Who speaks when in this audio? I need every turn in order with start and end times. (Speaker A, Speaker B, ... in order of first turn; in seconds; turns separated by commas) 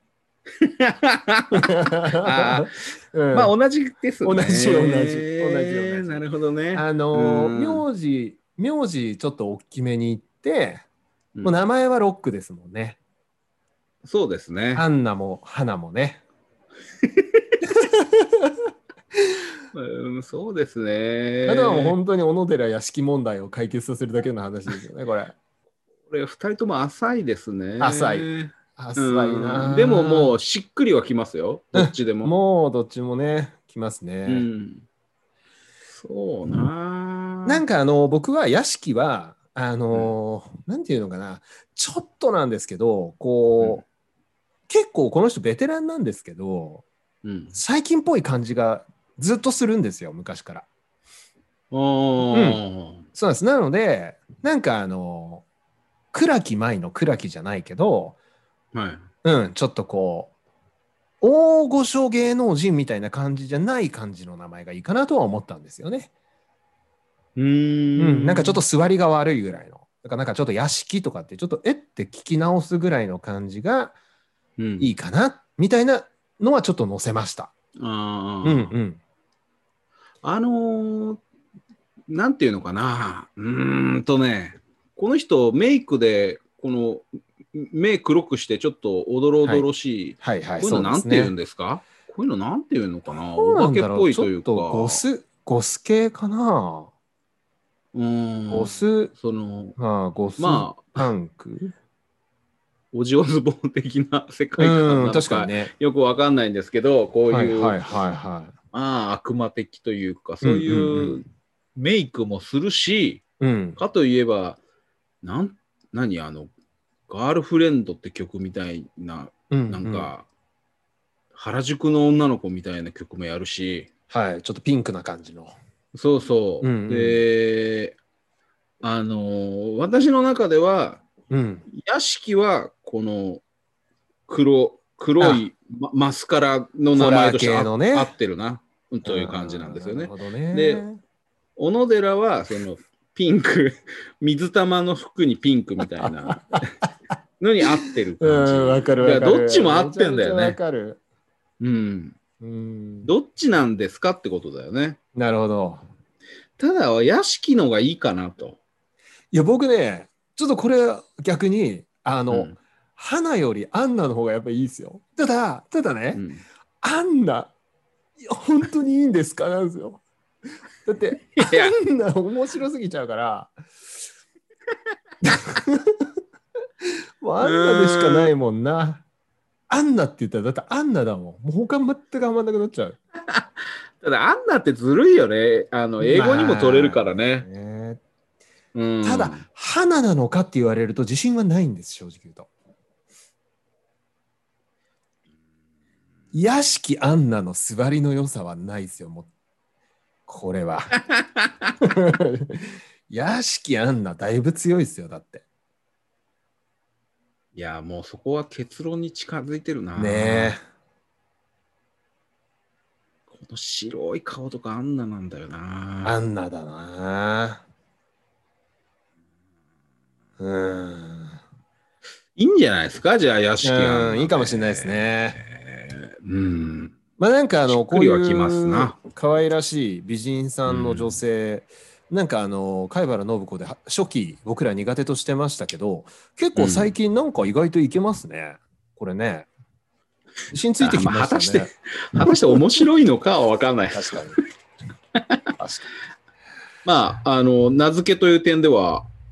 Speaker A: 0.6-2.7, Speaker B: 1.6-3.5, Speaker A: 3.3-7.8, Speaker B: 4.2-10.8, Speaker B: 11.4-13.0, Speaker A: 14.0-14.8, Speaker B: 14.7-16.2, Speaker A: 17.0-17.5, Speaker B: 17.6-18.5, Speaker A: 19.7-22.0, Speaker B: 21.4-25.3, Speaker A: 26.1-32.3, Speaker B: 27.8-30.4, Speaker B: 31.7-34.5, Speaker A: 34.2-34.8, Speaker A: 35.9-37.6, Speaker B: 37.5-43.8, Speaker B: 44.7-46.8, Speaker A: 47.2-47.5, Speaker B: 47.5-50.7, Speaker A: 51.7-53.0, Speaker B: 52.3-52.6, Speaker B: 53.1-55.4, Speaker B: 56.1-58.1, Speaker A: 58.7-59.1, Speaker B: 59.2-60.3, Speaker B: 61.2-66.1, Speaker A: 67.3-68.6, Speaker B: 68.0-73.9, Speaker A: 74.6-74.9, Speaker B: 74.8-77.5, Speaker A: 77.8-78.7, Speaker B: 78.4-79.0, Speaker A: 80.2-81.2, Speaker A: 82.1-95.0, Speaker B: 90.2-91.3, Speaker B: 93.1-96.9, Speaker A: 97.9-99.8, Speaker B: 98.5-99.1, Speaker B: 99.8-101.7, Speaker A: 100.4-101.1, Speaker A: 102.9-107.8, Speaker B: 104.6-105.7, Speaker B: 107.3-108.5, Speaker A: 108.7-111.2, Speaker B: 110.4-111.2, Speaker A: 111.8-113.2, Speaker B: 113.4-113.8, Speaker A: 113.8-114.6, Speaker A: 115.2-116.5, Speaker A: 117.1-120.2, Speaker B: 119.5-120.1, Speaker A: 121.3-123.9, Speaker B: 124.1-125.5, Speaker A: 125.9-128.0, Speaker B: 126.6-127.2, Speaker A: 128.8-131.0, Speaker B: 131.3-131.7, Speaker A: 131.7-133.4, Speaker A: 134.3-140.8, Speaker B: 135.2-135.4, Speaker B: 136.9-138.1, Speaker B: 139.0-141.0, Speaker A: 141.6-146.7, Speaker B: 146.0-146.3, Speaker A: 147.4-150.6, Speaker B: 147.8-151.0, Speaker A: 151.6-152.2, Speaker B: 152.4-153.1, Speaker A: 153.0-155.0, Speaker B: 155.1-155.8, Speaker A: 156.6-158.6, Speaker B: 159.3-166.2, Speaker A: 166.1-166.4, Speaker B: 166.8-167.5, Speaker B: 168.2-170.0, Speaker B: 170.8-173.5, Speaker A: 171.4-171.7, Speaker B: 175.2-176.0, Speaker B: 177.2-179.0, Speaker A: 177.4-178.3, Speaker B: 179.7-183.0, Speaker A: 184.0-187.5, Speaker B: 186.0-188.0, Speaker A: 188.7-189.4, Speaker B: 189.0-192.5, Speaker B: 196.3-199.3, Speaker B: 200.3-200.9, Speaker A: 201.1-201.4, Speaker B: 201.8-205.4, Speaker A: 207.5-210.6, Speaker B: 209.9-210.6, Speaker A: 213.3-216.2, Speaker B: 216.0-217.6, Speaker B: 220.4-221.4, Speaker A: 222.3-226.9, Speaker B: 223.6-225.4, Speaker B: 227.2-239.5, Speaker A: 227.7-228.9, Speaker A: 230.7-231.2, Speaker A: 236.6-236.9, Speaker B: 240.5-242.4, Speaker A: 240.8-244.4, Speaker B: 243.9-244.4, Speaker B: 245.6-245.9, Speaker A: 246.8-249.1